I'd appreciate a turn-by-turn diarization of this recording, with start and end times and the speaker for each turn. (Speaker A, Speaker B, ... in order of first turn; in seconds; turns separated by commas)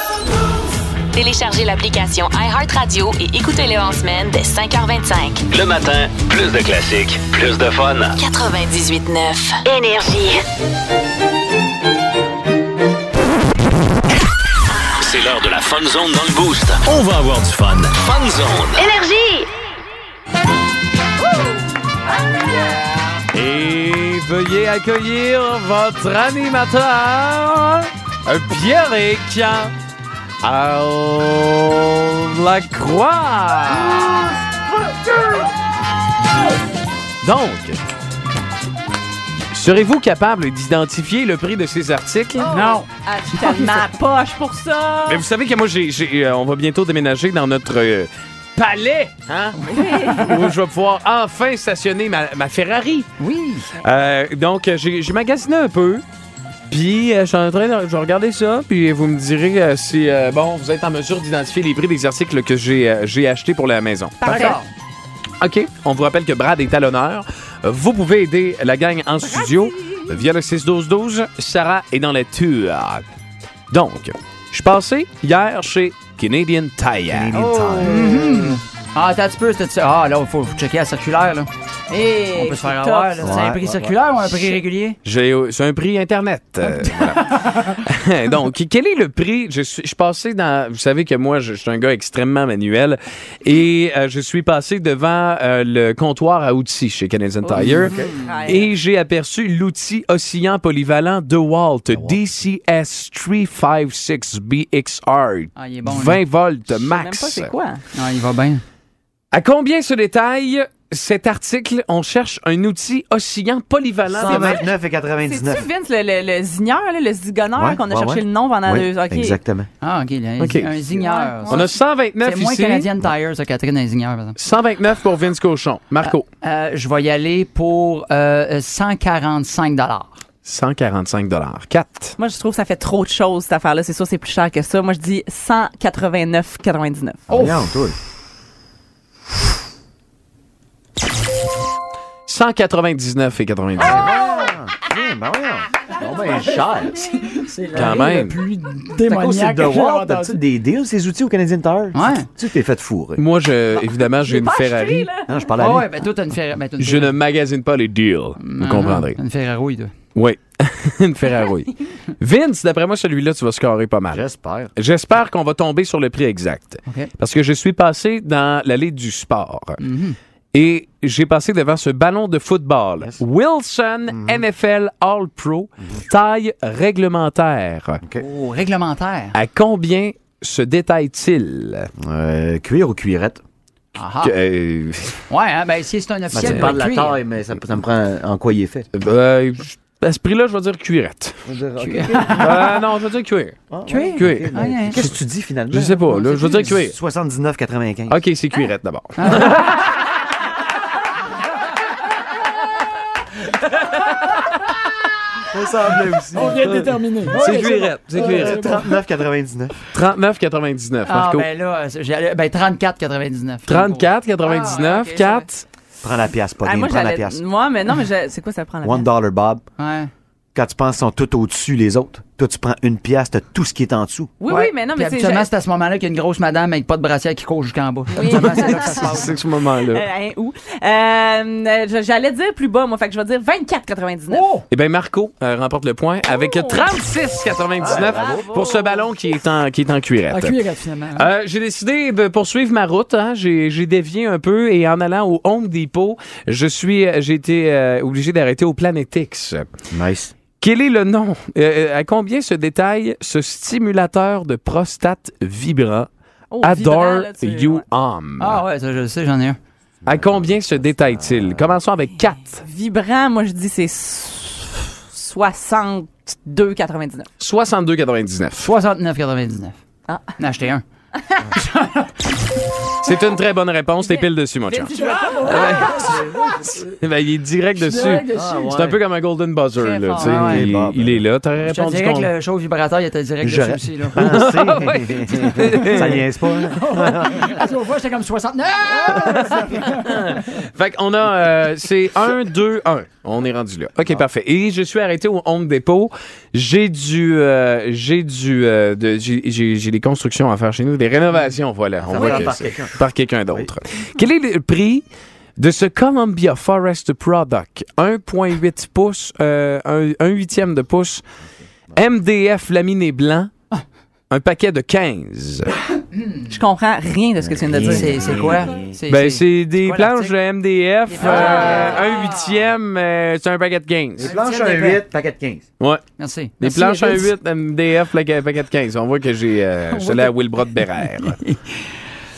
Speaker A: 1.1-5.4, Speaker B: 5.5-8.2, Speaker A: 8.2-10.4, Speaker B: 15.0-18.9, Speaker A: 18.8-19.5, Speaker C: 22.2-22.7, Speaker D: 23.3-29.7, Speaker D: 30.4-34.3, Speaker D: 37.2-37.8, Speaker D: 39.5-42.5, Speaker C: 42.4-45.2, Speaker E: 42.5-43.8, Speaker D: 45.1-53.1, Speaker E: 49.6-50.2, Speaker C: 49.6-50.4, Speaker E: 53.2-53.7, Speaker D: 53.8-56.0, Speaker D: 56.7-64.6, Speaker C: 64.2-64.6, Speaker E: 64.2-64.7, Speaker D: 65.4-73.0, Speaker C: 69.2-70.2, Speaker D: 73.7-77.4, Speaker F: 77.1-78.2, Speaker E: 77.8-81.5, Speaker C: 81.9-83.3, Speaker E: 82.3-85.0, Speaker F: 83.2-83.9, Speaker D: 85.0-97.9, Speaker E: 86.9-87.8, Speaker F: 97.6-98.3, Speaker C: 97.6-98.7, Speaker D: 98.5-107.5, Speaker F: 101.9-102.2, Speaker E: 105.5-106.2, Speaker C: 106.7-107.8, Speaker E: 108.0-108.6, Speaker D: 109.3-114.7, Speaker F: 114.1-115.7, Speaker C: 114.2-114.7, Speaker C: 115.2-119.4, Speaker F: 117.6-119.7, Speaker E: 119.8-121.7, Speaker D: 120.4-120.8, Speaker C: 120.9-121.7, Speaker D: 121.5-122.9, Speaker E: 122.2-124.3, Speaker D: 124.4-126.2, Speaker E: 126.0-130.2, Speaker D: 130.4-132.2, Speaker C: 132.2-137.2, Speaker E: 137.3-137.6, Speaker F: 137.3-137.9, Speaker D: 142.3-144.1, Speaker F: 143.8-147.1, Speaker E: 146.3-150.4, Speaker D: 147.7-148.4, Speaker F: 149.1-153.2, Speaker E: 151.9-152.3, Speaker D: 153.2-155.1, Speaker C: 153.8-155.3, Speaker F: 155.3-155.9, Speaker E: 155.6-157.2, Speaker D: 156.8-159.2, Speaker E: 158.4-159.9, Speaker D: 160.1-164.2, Speaker F: 164.1-164.7, Speaker D: 164.8-169.8, Speaker E: 169.8-170.2, Speaker D: 170.5-178.0, Speaker F: 174.1-174.4, Speaker E: 178.2-179.3, Speaker D: 179.3-181.9, Speaker F: 182.0-183.4, Speaker E: 183.9-184.3, Speaker D: 184.2-185.2, Speaker E: 185.3-187.2, Speaker F: 186.3-188.9, Speaker D: 186.4-186.7, Speaker D: 188.9-191.3, Speaker F: 191.4-192.8, Speaker E: 191.8-192.7, Speaker D: 192.4-195.1, Speaker F: 193.7-198.2, Speaker E: 193.8-195.0, Speaker D: 195.7-196.9, Speaker E: 196.1-196.7, Speaker D: 198.1-200.1, Speaker E: 199.2-199.6, Speaker F: 205.5-209.8, Speaker E: 206.3-207.9, Speaker D: 206.6-208.8, Speaker D: 209.9-211.5, Speaker E: 211.1-215.4, Speaker D: 213.7-215.6, Speaker C: 214.6-215.4, Speaker F: 216.0-217.4, Speaker C: 216.6-219.1, Speaker F: 218.8-219.6, Speaker E: 219.8-220.1, Speaker F: 220.5-224.3, Speaker C: 224.4-225.5, Speaker E: 224.4-229.3, Speaker C: 228.1-229.3, Speaker D: 228.2-230.0, Speaker C: 229.8-234.5, Speaker E: 234.3-234.6, Speaker D: 234.7-240.6, Speaker C: 236.2-236.9, Speaker F: 237.8-238.5, Speaker C: 237.8-239.3, Speaker E: 240.3-241.3, Speaker D: 241.2-249.7, Speaker F: 249.9-250.3, Speaker D: 250.6-256.1, Speaker C: 256.5-257.8, Speaker D: 256.6-258.6, Speaker E: 258.4-259.6, Speaker F: 260.0-261.8, Speaker D: 260.0-262.6, Speaker C: 262.6-267.3, Speaker D: 267.4-268.7, Speaker E: 268.6-269.8, Speaker E: 270.4-270.8, Speaker E: 271.5-272.3, Speaker D: 273.0-276.3, Speaker C: 274.0-276.0, Speaker E: 274.9-276.8, Speaker D: 276.8-282.3, Speaker E: 277.8-278.7, Speaker F: 278.3-279.0, Speaker E: 279.8-280.7, Speaker F: 280.2-281.2, Speaker E: 281.6-284.8, Speaker F: 283.4-287.6, Speaker D: 284.1-286.2, Speaker E: 285.5-290.4, Speaker D: 289.1-305.0, Speaker F: 302.0-303.0, Speaker C: 302.1-302.5, Speaker D: 305.6-311.2, Speaker D: 311.9-313.5, Speaker D: 314.3-315.7, Speaker E: 316.1-316.5, Speaker C: 316.5-318.3, Speaker F: 317.4-319.0, Speaker E: 317.9-320.3, Speaker D: 319.1-324.3, Speaker E: 321.1-322.6, Speaker C: 321.2-321.9, Speaker F: 321.5-321.9, Speaker F: 324.2-325.6, Speaker E: 324.2-325.0, Speaker E: 326.2-327.3, Speaker D: 326.6-331.4, Speaker E: 329.9-330.4, Speaker E: 331.2-332.0